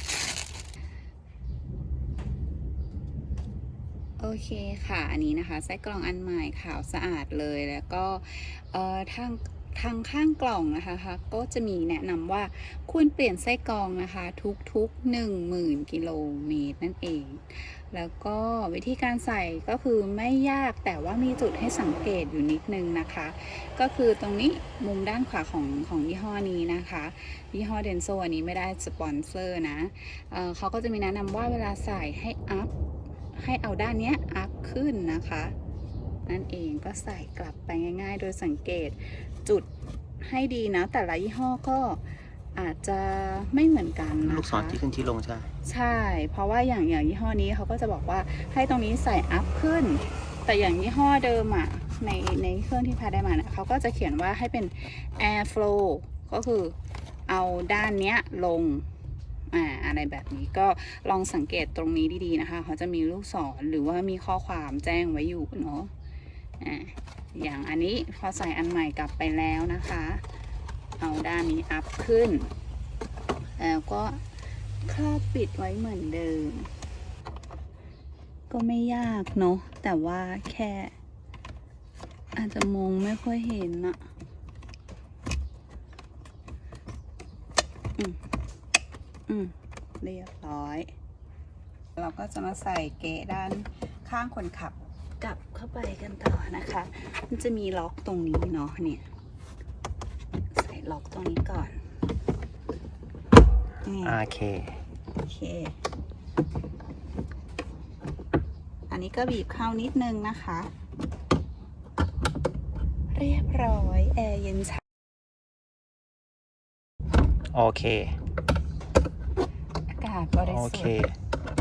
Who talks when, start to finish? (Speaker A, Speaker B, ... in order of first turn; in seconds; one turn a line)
Speaker A: 4.2-32.7
Speaker A: 33.3-35.5
Speaker A: 36.2-39.7
Speaker A: 40.2-42.0
Speaker A: 42.5-44.8
Speaker B: 44.2-45.5
Speaker A: 45.6-56.7
Speaker A: 57.3-58.9
Speaker A: 59.5-65.9
Speaker A: 66.6-70.2
Speaker A: 71.0-72.5
Speaker A: 73.6-74.2
Speaker A: 74.8-76.7
Speaker A: 78.5-80.9
Speaker A: 82.3-84.0
Speaker A: 89.3-90.9
Speaker A: 92.0-99.0
Speaker A: 100.5-101.8
Speaker A: 103.8-104.2
Speaker B: 104.0-104.8
Speaker A: 105.2-105.8
Speaker A: 108.9-110.7
Speaker A: 113.1-114.8
Speaker B: 117.5-118.2
Speaker A: 119.9-121.0
Speaker B: 120.4-121.1